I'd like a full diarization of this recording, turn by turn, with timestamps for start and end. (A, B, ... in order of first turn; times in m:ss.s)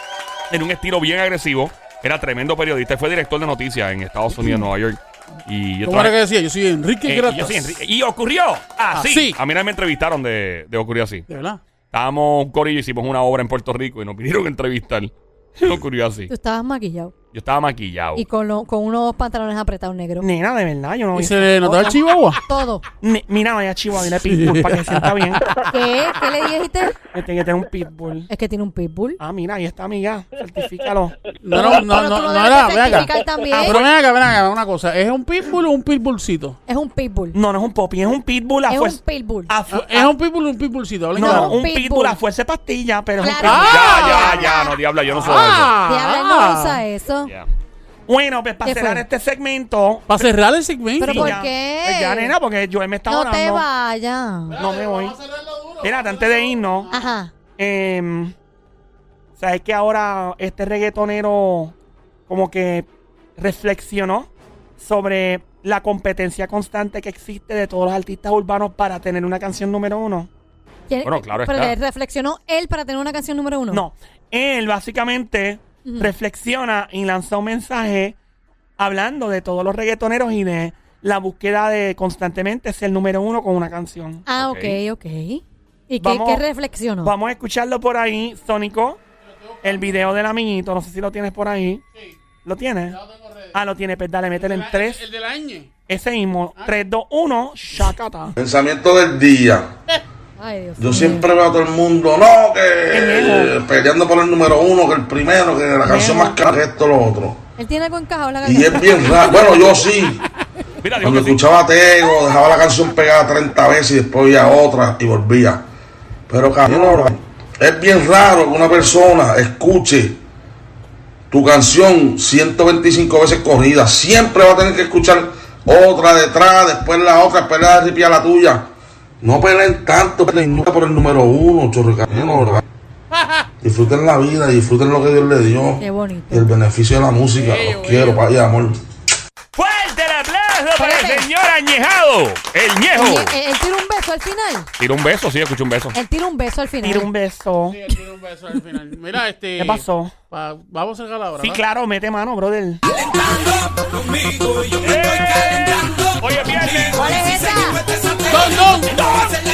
0:00.5-0:06.2 A
0:05.8-0:07.8 B
0:07.0-0:11.3 A
0:08.9-0:09.4 B
0:11.3-0:11.6 B
0:11.9-0:16.3 A
0:16.3-0:17.1 C
0:17.3-0:18.2 A
0:18.2-0:20.3 C
0:20.2-0:22.0 D
0:21.1-0:22.4 B
0:21.7-0:22.8 C
0:23.0-0:25.5 D
0:24.2-0:25.1 B
0:25.7-0:27.0 C
0:27.1-0:28.3 D
0:28.3-0:29.2 C
0:29.2-0:31.1 D
0:31.4-0:36.6 B
0:31.5-0:33.8 C
0:36.7-0:37.4 C
0:37.3-0:40.1 D
0:38.7-0:39.5 C
0:39.7-0:41.6 B
0:41.1-0:44.3 D
0:41.2-0:42.2 C
0:43.2-0:44.7 C
0:43.4-0:44.5 B
0:43.6-0:45.7 A
0:45.1-0:46.8 B
0:45.8-0:47.3 C
0:48.1-0:50.2 D
0:48.6-0:49.0 C
0:50.1-0:51.4 B
0:51.0-0:52.3 C
0:51.0-0:53.6 D
0:53.1-0:54.6 C
0:54.5-0:57.0 B
0:54.6-0:55.2 D
0:55.8-0:56.9 D
0:56.9-0:57.3 C
0:57.6-0:58.3 D
0:59.4-1:01.7 D
1:02.3-1:10.3 D
1:10.9-1:13.8 C
1:11.0-1:11.7 A
1:13.7-1:18.2 D
1:15.8-1:16.1 C
1:18.8-1:24.2 D
1:24.3-1:27.1 C
1:24.4-1:24.8 A
1:26.0-1:26.4 D
1:27.0-1:29.0 D
1:29.2-1:30.1 B
1:29.6-1:31.8 D
1:32.4-1:33.0 D
1:32.9-1:33.6 B
1:33.5-1:35.0 D
1:34.3-1:35.7 B
1:35.9-1:38.3 D
1:38.4-1:39.7 E
1:40.4-1:41.3 C
1:40.8-1:47.4 E
1:42.9-1:43.5 D
1:45.8-1:46.4 D
1:47.6-1:49.8 C
1:48.4-1:50.2 E
1:50.8-1:51.4 A
1:51.0-1:55.6 E
1:56.3-2:00.2 E
2:01.3-2:08.7 E
2:09.2-2:12.6 E
2:13.1-2:13.5 B
2:13.6-2:18.8 E
2:15.8-2:16.5 C
2:17.4-2:18.2 B
2:19.5-2:23.3 A
2:20.8-2:21.3 C
2:22.9-2:24.7 C
2:24.8-2:26.0 A
2:25.9-2:27.1 C
2:26.8-2:27.8 D
2:27.7-2:31.6 B
2:29.6-2:30.1 D
2:31.4-2:32.8 D
2:33.2-2:34.7 F
2:34.8-2:37.2 A
2:35.3-2:35.7 F
2:36.9-2:37.8 C
2:38.3-2:39.0 B